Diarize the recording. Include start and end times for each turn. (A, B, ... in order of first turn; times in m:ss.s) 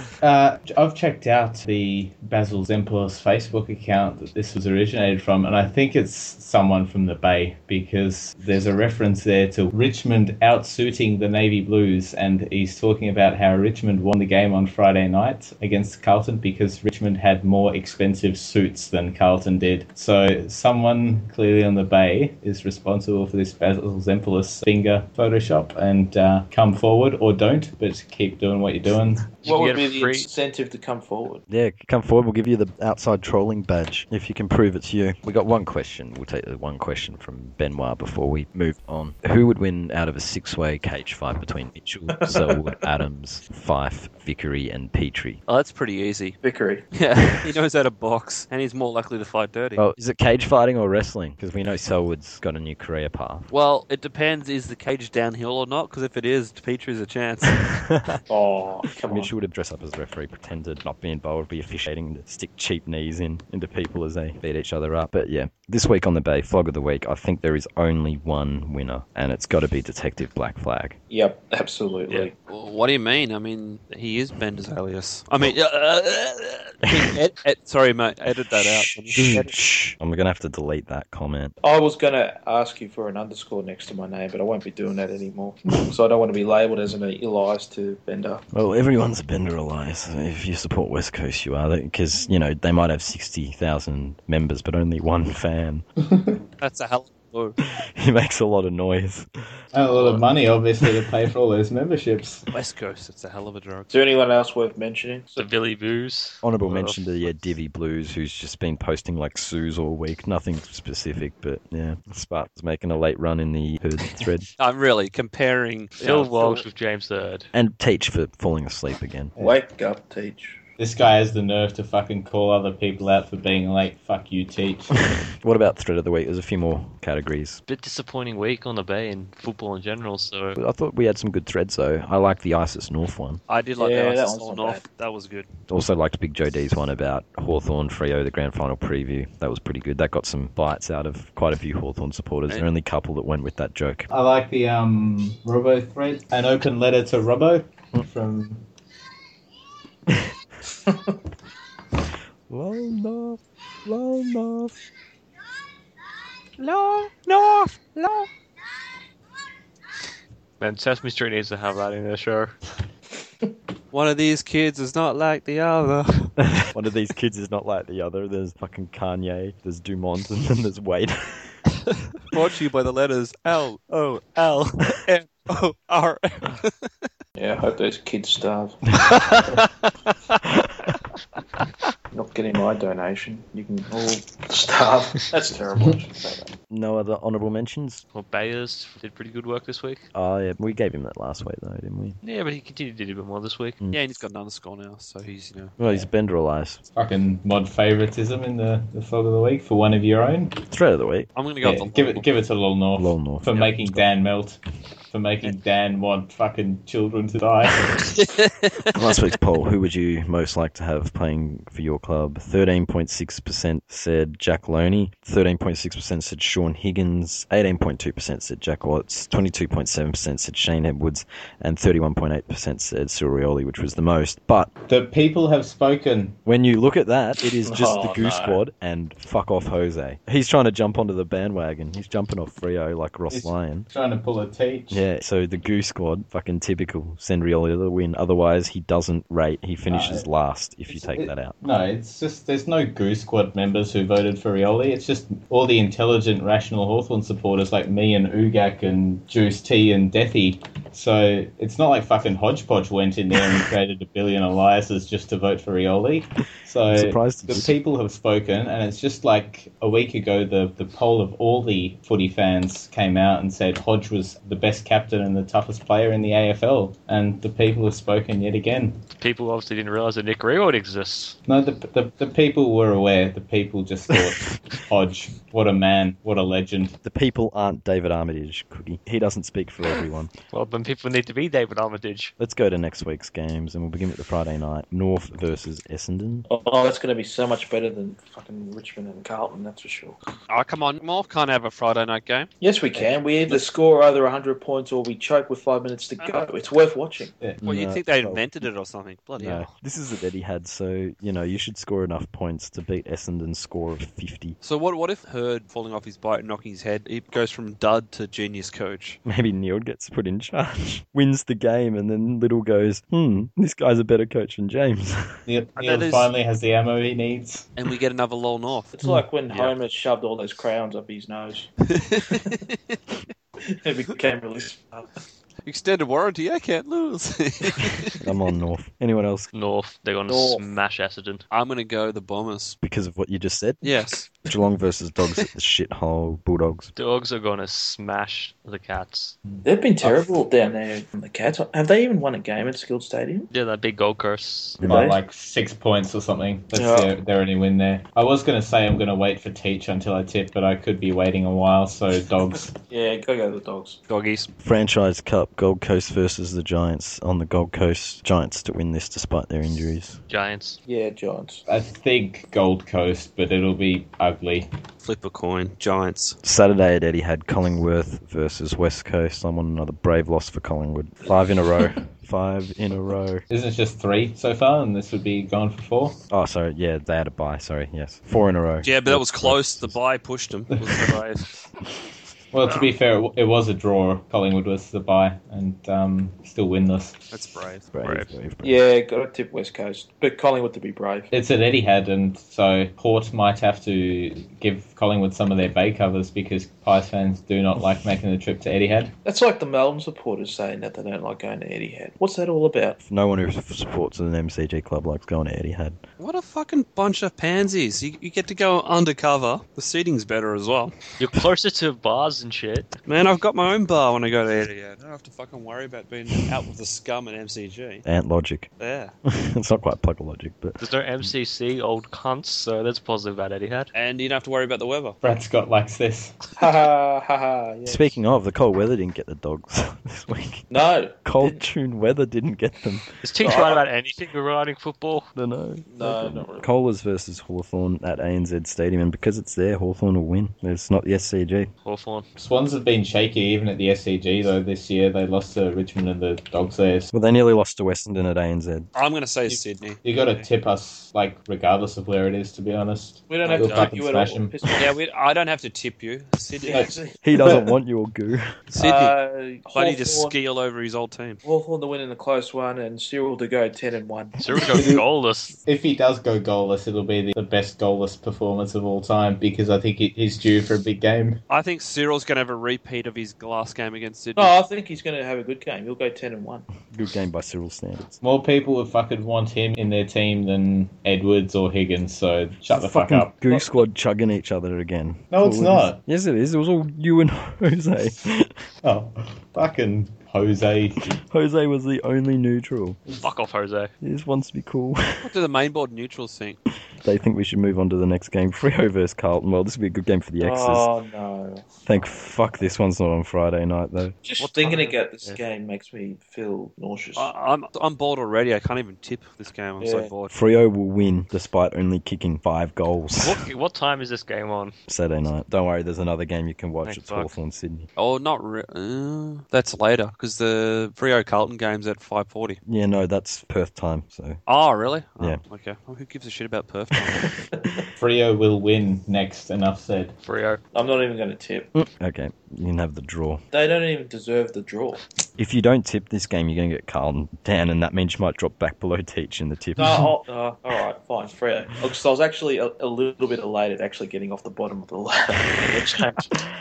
0:00.2-0:29.4 A
0:29.4-0:31.4 B
0:29.4-0:30.3 C
0:31.5-0:45.4 D
0:42.2-0:42.6 B
0:45.5-0:46.4 E
0:46.4-0:46.8 B
0:46.9-0:49.8 E
0:49.8-0:53.5 D
0:53.5-0:57.6 E
0:57.7-0:58.2 D
0:58.3-0:59.3 B
0:59.1-1:11.0 D
1:11.1-1:12.3 B
1:12.5-1:19.6 E
1:19.1-1:21.5 D
1:21.6-1:28.4 B
1:28.5-1:35.8 D
1:36.1-1:36.4 A
1:36.6-1:37.6 E
1:37.8-1:39.3 D
1:39.7-1:42.4 A
1:42.5-1:43.9 E
1:43.9-1:45.5 B
1:45.4-1:47.0 C
1:46.4-1:54.5 D
1:54.6-1:56.6 E
1:56.0-1:57.5 C
1:57.5-1:59.3 D
1:59.4-2:00.6 B
2:00.8-2:05.0 A
2:05.1-2:07.6 D
2:07.6-2:10.6 C
2:10.6-2:13.4 D
2:13.5-2:15.5 E
2:13.8-2:14.8 B
2:15.7-2:24.0 D
2:24.1-2:28.6 A
2:32.5-2:34.8 D
2:36.6-2:37.6 D
2:37.9-2:38.2 E
2:40.6-2:42.6 C
2:43.9-2:46.4 E
2:46.6-2:51.6 D
2:52.2-2:56.9 E
2:57.4-2:58.8 B
2:59.2-2:59.6 E
3:02.1-3:06.5 B
3:06.7-3:08.0 D
3:08.1-3:10.1 C
3:10.1-3:12.2 D
3:12.2-3:13.8 C
3:13.9-3:15.8 E
3:15.8-3:16.8 D
3:16.9-3:20.6 A
3:20.7-3:21.9 D
3:21.4-3:22.2 E
3:21.7-3:28.0 A
3:23.0-3:24.0 D
3:28.2-3:29.0 E
3:28.9-3:44.7 D
3:44.9-3:46.4 A
3:46.4-3:53.9 D
3:47.6-3:48.6 B
3:53.3-3:55.0 A
3:54.9-4:01.5 D
3:59.9-4:00.2 A
4:00.9-4:29.0 A
4:16.9-4:17.7 D
4:29.2-4:31.4 C
4:31.5-4:37.0 A
4:37.0-4:40.3 D
4:40.5-4:42.3 C
4:42.4-4:46.5 D
4:46.5-4:50.2 B
4:50.5-4:52.5 E
4:52.6-4:57.3 B
4:57.6-4:58.5 D
4:57.6-4:59.7 E
4:59.4-5:04.6 D
5:04.6-5:09.2 E
5:09.2-5:15.4 D
5:15.5-5:17.7 A
5:15.8-5:16.3 E
5:17.8-5:18.9 E
5:18.9-5:21.7 B
5:19.5-5:19.7 E
5:21.9-5:23.0 E
5:23.7-5:25.1 B
5:25.6-5:28.2 E
5:28.2-5:29.5 D
5:29.5-5:31.4 C
5:30.3-5:30.6 B
5:31.5-5:32.8 E
5:32.8-5:36.9 D
5:33.8-5:34.3 E
5:37.0-5:39.4 C
5:39.6-5:40.2 A
5:39.6-5:43.5 B
5:43.5-5:44.8 C
5:44.8-5:45.0 D
5:44.8-5:52.8 A
5:44.8-5:45.2 B
5:46.7-5:47.1 B
5:52.9-5:54.0 B
5:54.1-5:54.5 E
5:54.6-6:00.2 D
6:00.3-6:00.8 C
6:00.8-6:01.6 B
6:01.7-6:04.7 A
6:05.0-6:06.4 E
6:06.4-6:13.4 D
6:13.5-6:16.2 A
6:16.3-6:20.0 D
6:18.8-6:21.6 E
6:20.8-6:21.1 A
6:22.5-6:27.2 A
6:27.3-6:28.3 E
6:27.9-6:28.8 D
6:28.6-6:31.3 B
6:31.3-6:39.1 A
6:39.2-6:43.0 B
6:43.0-6:46.0 D
6:46.2-6:51.0 E
6:51.2-6:52.9 C
6:53.0-6:58.0 E
6:58.0-6:58.7 D
6:58.8-6:59.1 E
6:59.2-7:01.3 D
7:00.8-7:03.9 C
7:03.9-7:05.2 E
7:05.2-7:06.4 A
7:06.6-7:08.2 B
7:07.8-7:10.7 D
7:10.7-7:11.6 B
7:11.2-7:13.1 D
7:13.2-7:15.3 C
7:13.4-7:13.8 B
7:15.3-7:21.7 D
7:15.9-7:16.7 B
7:21.8-7:22.2 C
7:22.4-7:27.1 A
7:27.1-7:28.9 D
7:28.9-7:30.4 E
7:29.5-7:34.6 A
7:33.3-7:34.9 B
7:33.6-7:33.9 E
7:34.8-7:36.9 E
7:36.6-7:37.6 B
7:36.7-7:37.6 A
7:37.2-7:38.5 D
7:38.7-7:39.1 E
7:38.8-7:40.4 B
7:39.7-7:41.4 E
7:41.4-7:44.9 B
7:44.4-7:45.6 C
7:44.7-7:45.0 A
7:45.6-7:51.4 A
7:51.5-7:54.5 E
7:54.4-7:56.6 B
7:56.9-7:58.2 D
7:58.2-8:03.4 A
8:02.7-8:08.6 D
8:05.3-8:06.0 A
8:08.8-8:11.1 A
8:11.1-8:13.0 D
8:13.2-8:13.9 C
8:14.0-8:15.3 D
8:15.2-8:16.6 E
8:17.0-8:20.9 D
8:20.4-8:21.6 B
8:21.8-8:24.2 D
8:24.2-8:27.3 B
8:24.4-8:24.9 E
8:24.4-8:25.4 C
8:27.2-8:30.3 E
8:29.8-8:30.1 B
8:30.3-8:33.4 D
8:33.2-8:34.7 C
8:34.9-8:37.9 D
8:36.8-8:37.3 C
8:38.0-8:42.6 E
8:42.6-8:44.4 D
8:44.5-8:47.3 E
8:48.0-8:50.1 A
8:50.2-8:50.6 C
8:50.7-8:51.7 B
8:51.7-8:53.4 D
8:53.5-8:55.0 B
8:55.4-9:00.1 D
8:59.8-9:06.3 B